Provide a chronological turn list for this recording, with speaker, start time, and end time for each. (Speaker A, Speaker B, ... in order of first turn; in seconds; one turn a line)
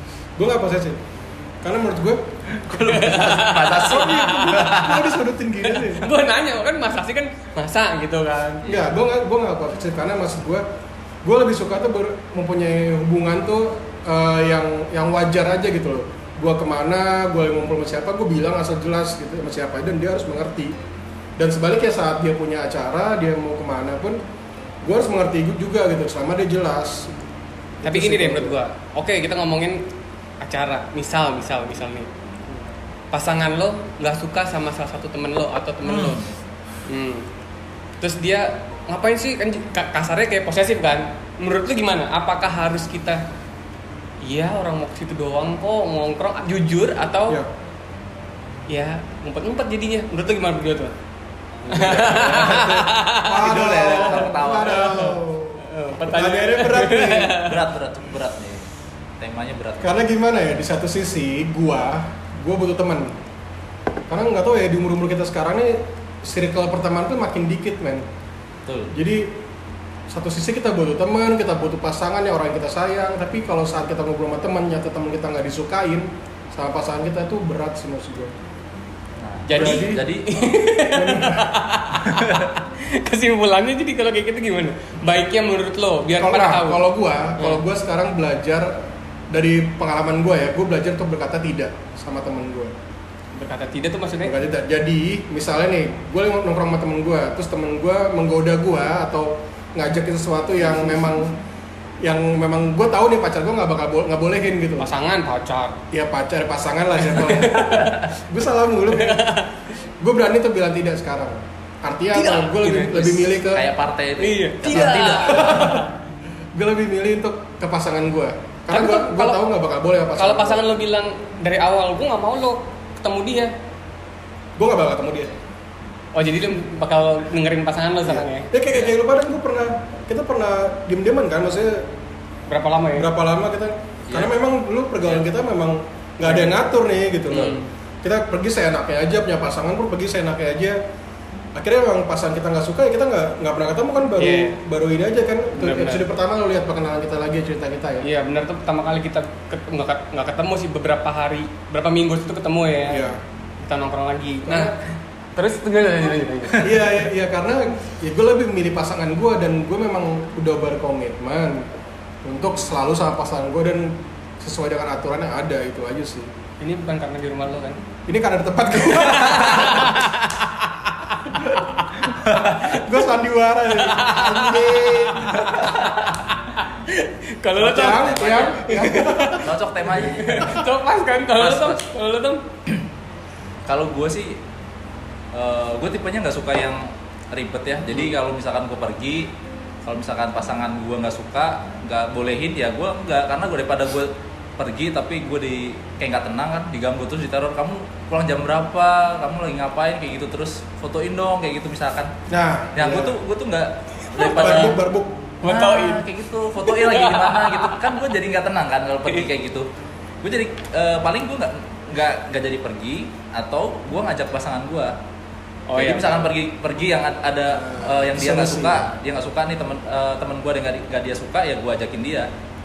Speaker A: 0.4-1.0
Speaker A: 1.6-3.2
Speaker B: 2.6-5.2
Speaker C: 2.7-4.8
Speaker A: 3.9-6.1
Speaker C: 5.9-8.6
Speaker B: 8.6-8.9
Speaker A: 8.6-10.6
Speaker A: 11.2-20.8
Speaker A: 21.4-24.2
Speaker A: 24.8-27.2
Speaker A: 27.8-28.6
Speaker C: 27.8-29.9
Speaker C: 30.4-32.1
Speaker C: 33.1-36.2
Speaker B: 35.9-36.4
Speaker C: 36.9-37.3
Speaker C: 38.0-43.2
Speaker C: 44.2-47.4
Speaker C: 48.7-51.0
Speaker A: 51.7-57.4
Speaker C: 51.7-57.6
Speaker B: 51.9-52.6
Speaker B: 53.3-55.1
Speaker B: 57.4-58.7
Speaker B: 59.2-60.0
Speaker A: 59.8-63.2
Speaker A: 64.1-68.1
Speaker B: 68.7-68.9
Speaker A: 68.9-69.4
Speaker A: 70.1-78.3
Speaker B: 79.2-80.6
Speaker C: 79.5-86.8
Speaker A: 79.5-80.0
Speaker A: 80.9-81.6
Speaker B: 82.0-82.5
Speaker A: 86.2-92.7
Speaker C: 93.3-94.3
Speaker A: 94.2-101.4
Speaker C: 100.6-101.2
Speaker A: 102.0-104.9
Speaker C: 104.8-105.8
Speaker A: 105.9-109.3
Speaker C: 107.1-108.0
Speaker B: 107.7-108.0
Speaker C: 108.9-109.7
Speaker A: 110.0-113.7
Speaker C: 112.1-113.2
Speaker B: 113.2-115.8
Speaker C: 114.2-115.9
Speaker A: 114.7-115.9
Speaker A: 116.5-120.6
Speaker C: 118.7-119.4
Speaker C: 120.2-123.5
Speaker A: 124.6-125.3
Speaker C: 126.1-128.5
Speaker A: 128.1-131.9
Speaker C: 132.5-133.1
Speaker A: 133.0-140.8
Speaker C: 137.3-137.7
Speaker A: 141.6-148.1
Speaker C: 144.2-144.6
Speaker C: 145.6-146.1
Speaker C: 148.0-153.0
Speaker A: 152.9-153.2
Speaker C: 153.6-154.8
Speaker A: 154.4-154.7
Speaker C: 155.4-157.0
Speaker A: 156.6-161.7
Speaker A: 162.2-166.3
Speaker C: 166.6-167.8
Speaker A: 168.1-170.0
Speaker C: 168.8-172.2
Speaker A: 172.0-175.7
Speaker B: 172.2-172.8
Speaker C: 173.8-178.1
Speaker B: 175.5-175.9
Speaker A: 177.6-179.5
Speaker B: 177.8-180.6
Speaker C: 178.7-179.4
Speaker C: 180.0-182.4
Speaker B: 181.3-181.9
Speaker B: 183.7-184.4
Speaker B: 185.3-189.3
Speaker B: 189.8-202.1
Speaker A: 202.3-203.2
Speaker B: 202.8-204.8
Speaker C: 204.1-204.6
Speaker A: 204.2-205.2
Speaker C: 205.4-206.0
Speaker B: 205.4-209.7
Speaker C: 206.6-207.9
Speaker B: 210.2-215.0
Speaker C: 215.7-216.3
Speaker B: 215.8-222.3
Speaker A: 217.5-218.9